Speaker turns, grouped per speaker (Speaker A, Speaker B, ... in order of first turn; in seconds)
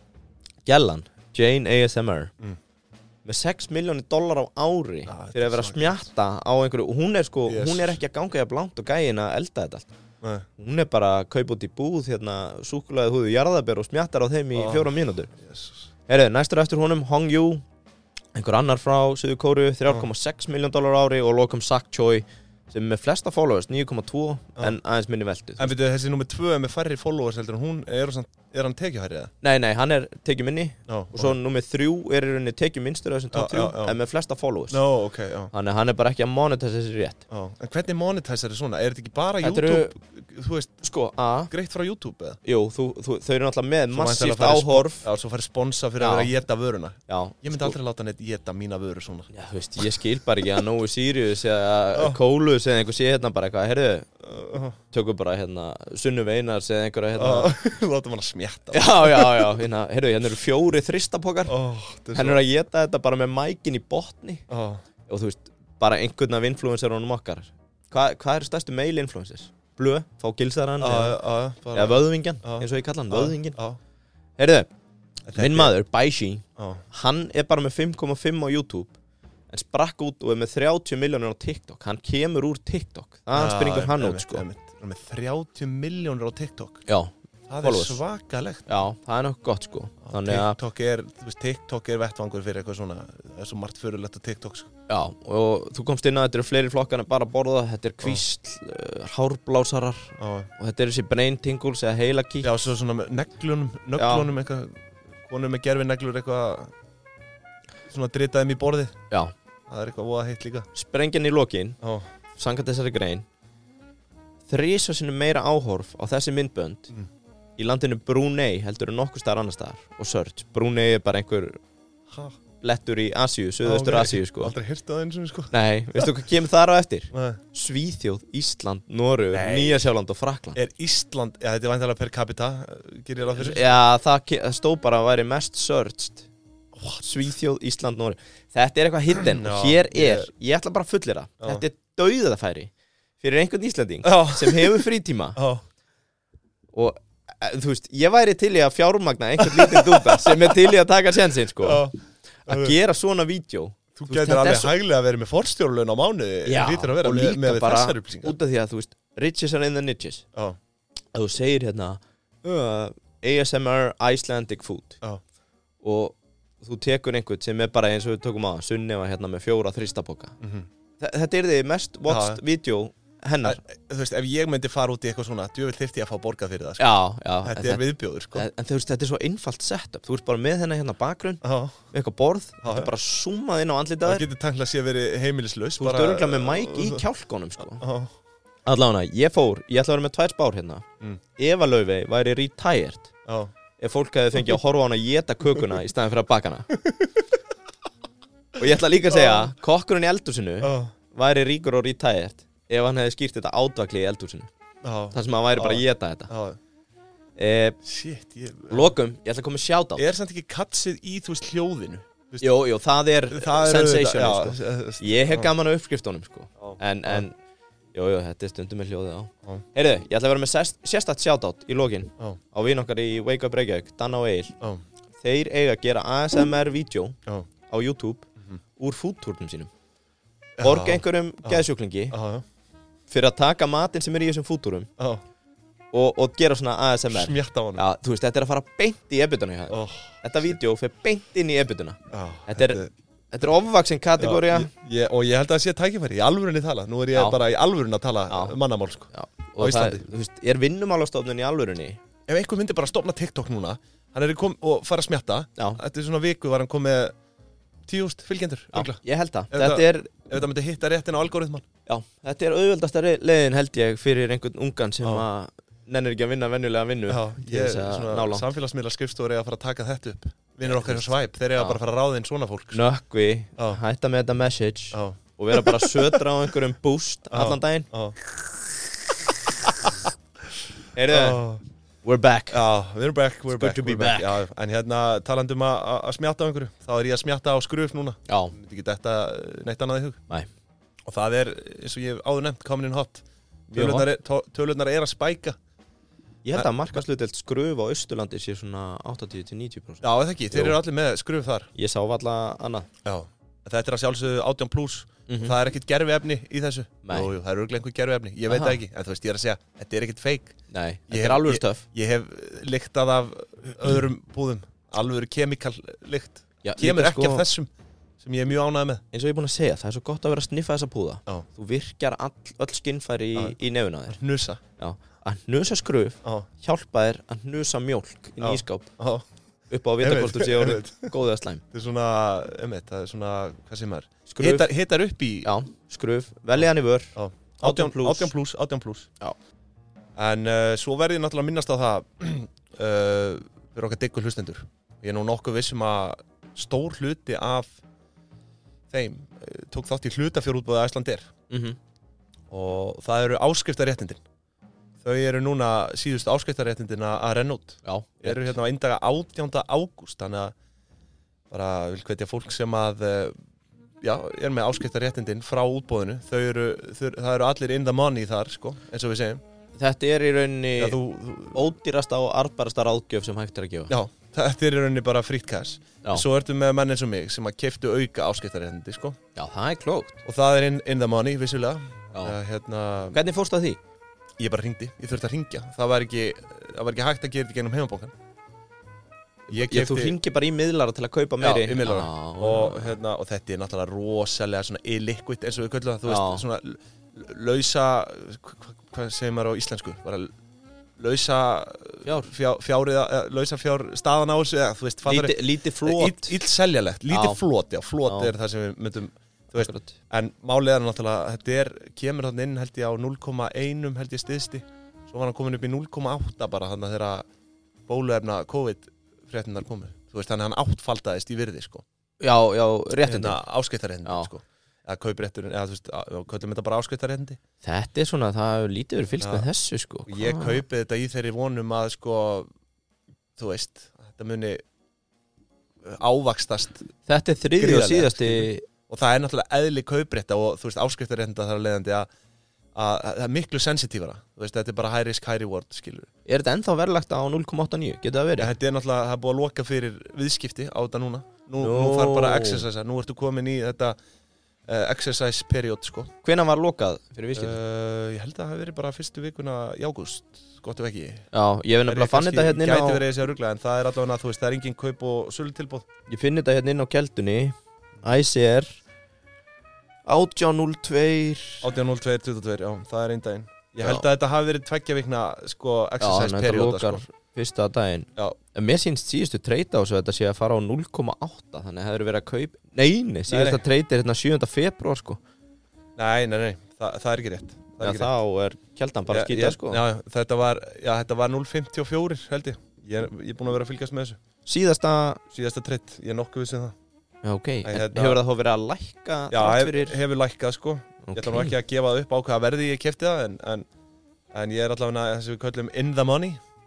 Speaker A: 0.7-2.3, 3.2-9.9, 10.6-15.3, 16.1-17.6, 18.4-25.7, 29.4-34.8, 35.5-37.2, 39.4-39.9, 40.8-41.5, 42.4-45.1, 46.0-46.3, 47.1-47.8, 49.3-54.1, 54.9-57.5, 58.7-61.6, 62.1-64.5, 65.1-71.2, 71.7-73.6, 74.4-74.7, 75.3-78.9, 79.5-84.5, 86.9-88.0, 88.7-90.6, 94.9-102.5, 104.0-104.3, 110.7-111.8, 112.4-113.3, 114.5-116.9, 117.6-121.6, 122.6-124.5, 125.5-130.6, 133.3-136.3, 137.0-145.4, 146.7-151.9, 152.4-154.8, 156.5-160.2, 161.1-165.0, 165.8-170.4, 171.0-173.6, 176.8-184.2, 185.8-187.8, 188.7-190.8, 191.4-193.1, 193.8-196.7, 198.6-204.5, 205.1-206.3, 207.4-207.8, 208.7-210.0, 212.4-217.4, 217.9-224.5, 225.2-227.2, 227.7-229.7, 230.6-232.2, 233.1-234.9, 235.9-242.8, 243.3-244.7, 247.1-247.4, 248.3-248.6, 249.1-252.0, 258.7-260.1, 261.9-268.5, 270.6-271.0, 272.7-277.9, 280.9-281.4, 282.0-282.6, 283.5-284.4, 288.3-288.6, 293.7-294.1, 296.4-300.8, 301.8-302.9, 305.3-305.6, 307.1-307.3, 308.5-308.8, 310.7-311.9, 316.6-317.5, 319.1-324.2, 324.8-328.9, 329.7-331.6, 334.3-334.7, 335.4-338.3, 351.5-351.8, 357.8-358.6, 369.8-371.0, 371.5-373.9, 379.4-380.2, 383.1-383.8, 389.5-393.0, 396.1-396.4, 402.1-402.3, 405.1-406.4, 407.1-407.4, 408.1-408.3, 409.5-410.0, 422.2-423.4, 424.1-424.3, 427.6-430.6, 437.1-438.6, 446.3-448.5, 451.6-452.6, 456.2-457.6, 461.3-463.0, 466.1-468.8, 470.1-471.7, 476.0-485.2, 487.8-489.8, 494.5-495.2, 497.2-500.0, 501.0-501.6
Speaker B: 5.1-6.1, 7.5-8.0, 14.5-15.9, 25.6-29.3, 30.9-31.4, 33.3-34.0, 34.7-35.5, 37.3-40.8, 41.5-42.4, 43.9-49.3, 51.9-52.2, 54.2-54.8, 57.2-59.6, 61.5-62.4, 64.5-64.8, 70.8-73.8, 75.3-75.7, 76.6-76.8, 83.3-86.8, 87.5-88.7, 90.1-94.7, 100.2-100.5, 102.4-106.7, 107.9-109.0, 109.7-110.7, 111.8-112.1, 122.1-122.4, 123.6-126.1, 127.1-127.4, 129.3-129.9, 130.6-133.7, 136.8-137.1, 139.2-140.3, 144.0-145.6, 149.4-150.6, 151.6-152.8, 154.0-158.4, 170.4-170.7, 172.1-172.4, 173.4-176.9, 177.4-178.5, 181.4-181.8, 182.6-182.9, 184.1-187.0, 187.7-188.1, 193.3-193.5, 196.7-197.3, 199.1-199.5, 200.6-200.9, 204.8-206.6, 207.8-208.9, 210.0-212.4, 213.3-215.5, 216.6-217.2, 230.6-232.4, 235.0-235.2, 237.1-237.8, 239.7-240.6, 242.1-242.9, 244.2-250.1, 252.3-257.1, 257.9-259.0, 259.5-261.7, 267.1-272.9, 274.9-276.2, 277.3-278.2, 281.1-281.6, 282.5-290.2, 291.1-295.6, 300.0-301.7, 303.1-310.6, 311.1-317.7, 318.2-319.0, 324.1-324.6, 328.4-329.2, 330.0-331.1, 331.7-335.5, 337.2-339.1, 340.2-347.8, 348.9-351.3, 352.5-354.2, 355.0-360.5, 361.5-363.4, 364.0-369.4, 370.8-371.7, 373.9-379.2, 380.2-383.2, 384.4-388.1, 389.5-390.2, 391.4-400.3, 401.0-417.3, 417.9-421.8, 423.1-427.4, 429.2-429.5, 430.1-432.5, 433.4-434.6, 435.8-436.9, 437.6-442.1, 442.8-446.1, 448.4-454.0, 454.7-456.1, 457.3-461.3, 461.9-465.9, 471.6-477.0, 483.3-483.6, 486.0-488.1, 489.1-494.2, 495.3-496.8, 497.6-498.2, 499.3-503.7, 504.3-506.4